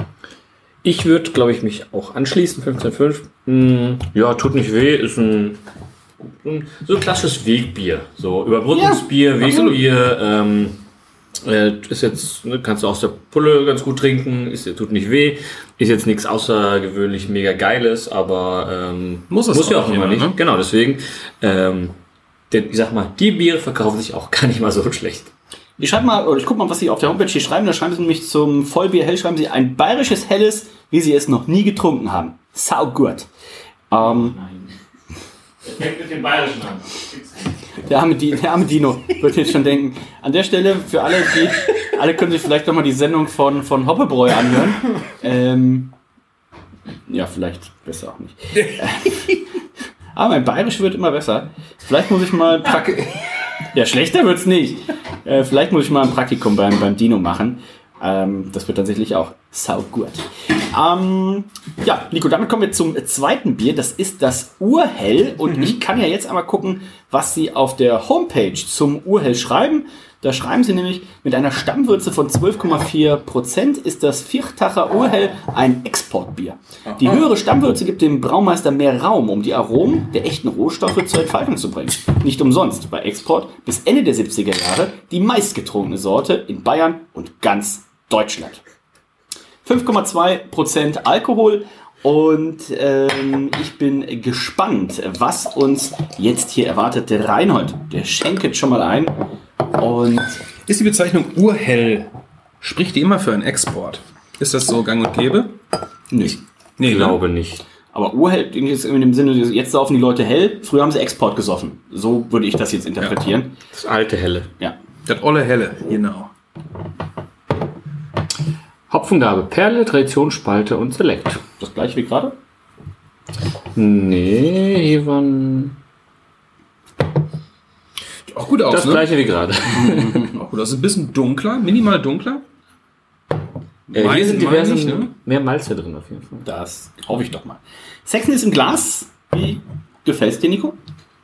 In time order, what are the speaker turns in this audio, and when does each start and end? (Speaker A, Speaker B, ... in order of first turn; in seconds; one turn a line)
Speaker A: 0.8-5.6
Speaker A: 6.2-10.8
Speaker B: 8.7-9.0
Speaker C: 9.4-9.8
Speaker A: 11.4-21.9
Speaker C: 19.3-20.4
Speaker A: 22.5-25.3
Speaker B: 25.8-33.3
Speaker B: 33.9-34.4
Speaker A: 34.0-34.7
Speaker A: 35.6-37.5
Speaker B: 37.9-45.9
Speaker B: 47.1-49.4
Speaker B: 50.1-53.1
Speaker B: 53.7-88.6
Speaker C: 76.9-77.2
Speaker B: 89.6-99.2
Speaker B: 99.7-100.4
Speaker C: 100.7-105.6
Speaker B: 106.1-106.4
Speaker C: 106.8-107.2
Speaker A: 106.8-107.6
Speaker B: 107.9-113.5
Speaker A: 113.7-114.5
Speaker C: 115.1-116.3
Speaker A: 118.9-121.4
Speaker B: 121.6-122.4
Speaker A: 123.8-125.8
Speaker C: 128.3-129.1
Speaker A: 128.7-130.3
Speaker C: 129.9-132.4
Speaker C: 133.9-135.1
Speaker A: 133.9-136.4
Speaker B: 136.4-140.8